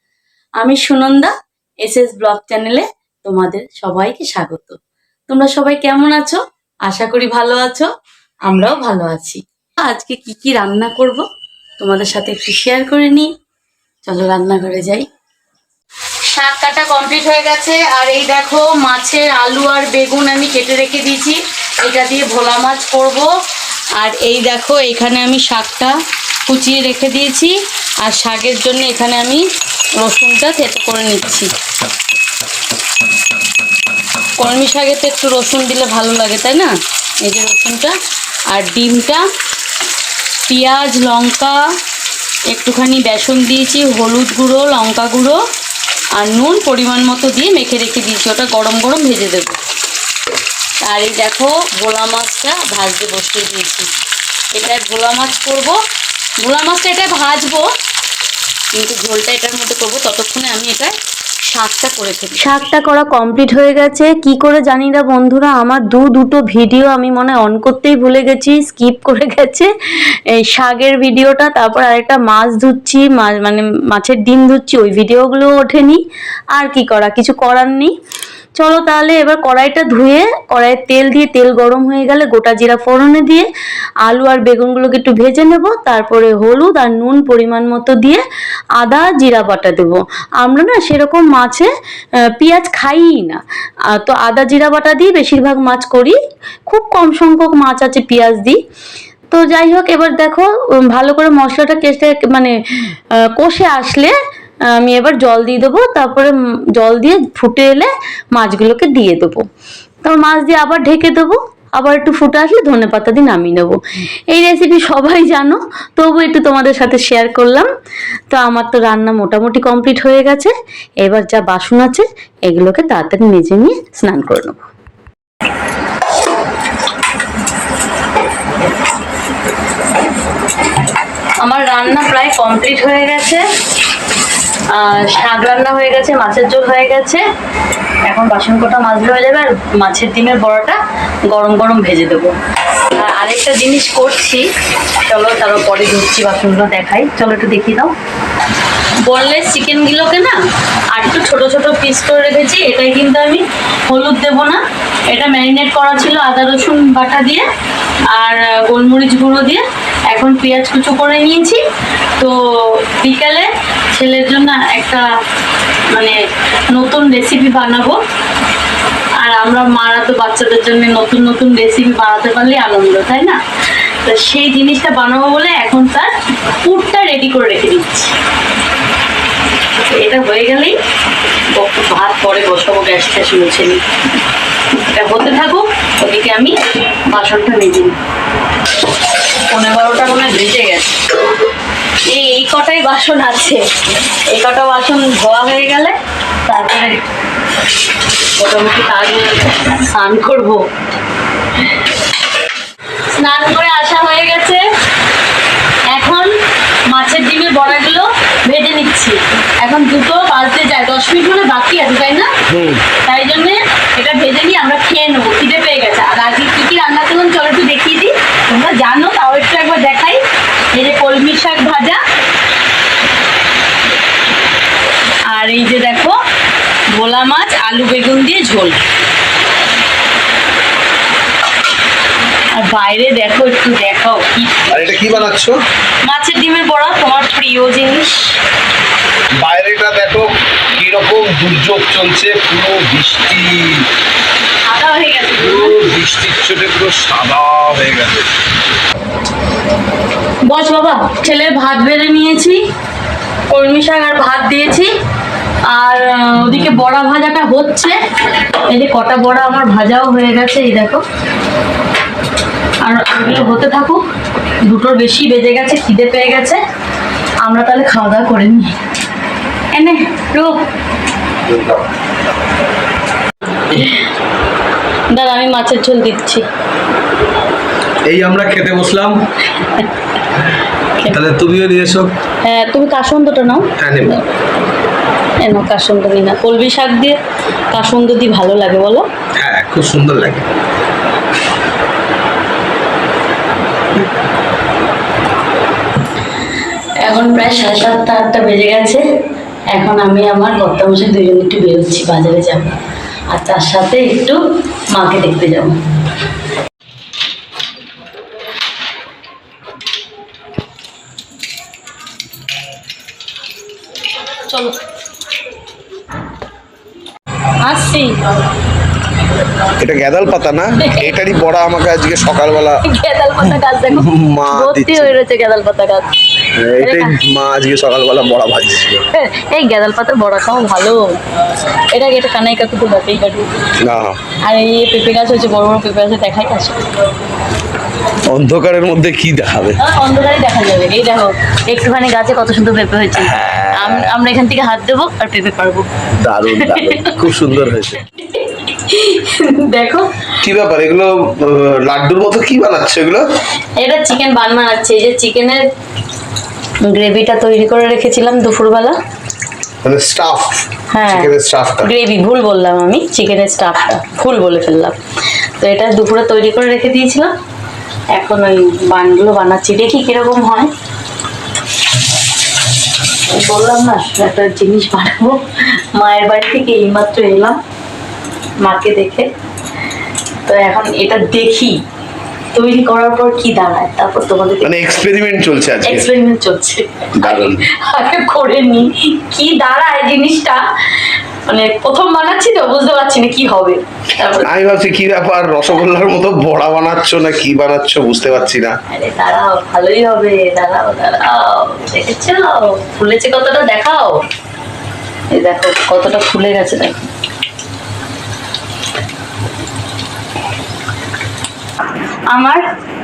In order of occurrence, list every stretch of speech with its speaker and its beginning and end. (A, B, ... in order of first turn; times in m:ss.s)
0:00.6-0:07.9 A
0:08.4-0:11.2 A
0:11.8-0:13.3 A
0:14.0-0:15.1 A
0:16.3-0:23.3 A
0:23.9-0:29.4 A
0:30.0-0:31.5 A
0:34.4-0:38.0 A
0:38.5-0:39.2 A
0:40.5-0:41.7 A
0:42.5-0:45.4 A
0:46.1-0:49.6 A
0:50.8-0:53.9 A
0:54.5-0:55.8 A
0:56.4-0:57.7 A
0:58.7-1:16.0 A
1:16.5-1:17.9 A
1:18.6-1:23.5 A
1:24.0-1:28.2 A
1:28.8-1:31.7 A
1:32.3-1:38.6 A
1:39.3-1:44.2 A
1:44.7-1:49.4 A
1:50.0-1:53.8 A
1:54.3-1:57.7 A
1:58.3-2:04.6 A
2:11.4-2:13.4 A
2:14.7-2:17.2 A
2:18.0-2:22.3 A
2:22.9-2:24.4 A
2:25.0-2:27.9 A
2:29.0-2:30.4 A
2:30.9-2:37.4 A
2:38.1-2:41.6 A
2:42.2-2:45.0 A
2:46.7-2:48.0 A
2:49.2-2:53.4 A
2:54.0-2:58.1 A
2:59.9-3:00.8 A
3:01.5-3:03.8 A
3:04.8-3:06.6 A
3:07.1-3:07.9 A
3:09.5-3:11.0 A
3:12.1-3:13.6 A
3:14.3-3:17.0 A
3:18.4-3:20.6 A
3:23.1-3:24.6 A
3:25.9-3:26.3 A
3:26.9-3:32.3 A
3:32.5-3:32.8 B
3:33.0-3:42.0 A
3:45.3-3:46.2 A
3:46.9-3:48.8 A
3:52.5-3:55.2 A
3:54.7-3:55.6 B
3:56.0-3:58.4 A
3:59.4-4:03.9 B
4:04.6-4:05.8 A
4:05.4-4:08.3 B
4:10.4-4:12.6 A
4:13.5-4:14.9 A
4:15.7-4:18.0 A
4:18.7-4:21.0 A
4:22.8-4:24.0 A
4:24.6-4:26.6 A
4:27.4-4:28.7 A
4:29.7-4:30.6 A
4:31.4-4:31.8 B
4:33.7-4:34.0 A
4:35.1-4:36.4 A
4:38.1-4:39.2 B
4:39.5-4:39.9 A
4:41.1-4:42.1 B
4:42.4-4:43.7 A
4:43.8-4:44.2 B
4:45.4-4:47.2 A
4:47.7-4:49.0 A
4:49.4-4:50.5 B
4:57.0-4:59.0 A
4:59.7-5:02.8 A
5:03.3-5:04.4 A
5:04.9-5:05.7 A
5:14.5-5:14.7 A
5:17.6-5:18.2 A
5:19.8-5:22.8 B
5:20.8-5:21.2 A
5:22.8-5:26.1 A
5:23.9-5:25.2 B
5:26.5-5:29.0 B
5:26.8-5:27.2 A
5:29.1-5:31.2 A
5:31.9-5:33.5 A
5:33.8-5:34.2 B
5:34.4-5:36.8 A
5:38.3-5:39.8 B
5:39.8-5:45.9 A
5:43.2-5:44.1 B
5:46.2-5:48.0 B
5:46.5-5:47.1 A
5:48.0-5:50.1 A
5:50.4-5:53.2 B
5:53.8-5:55.6 A
5:56.8-5:59.0 A
5:59.8-6:01.9 B
6:00.9-6:01.3 A
6:01.8-6:05.0 A
6:05.6-6:07.3 A
6:08.1-6:10.7 A
6:13.3-6:15.4 A
6:15.9-6:17.6 A
6:18.6-6:19.3 A
6:20.4-6:21.8 A
6:22.5-6:25.0 A
6:24.6-6:26.1 B
6:25.8-6:34.5 A
6:27.2-6:27.6 B
6:34.4-6:38.7 B
6:38.9-6:44.2 A
6:45.3-6:47.0 A
6:52.3-6:52.6 A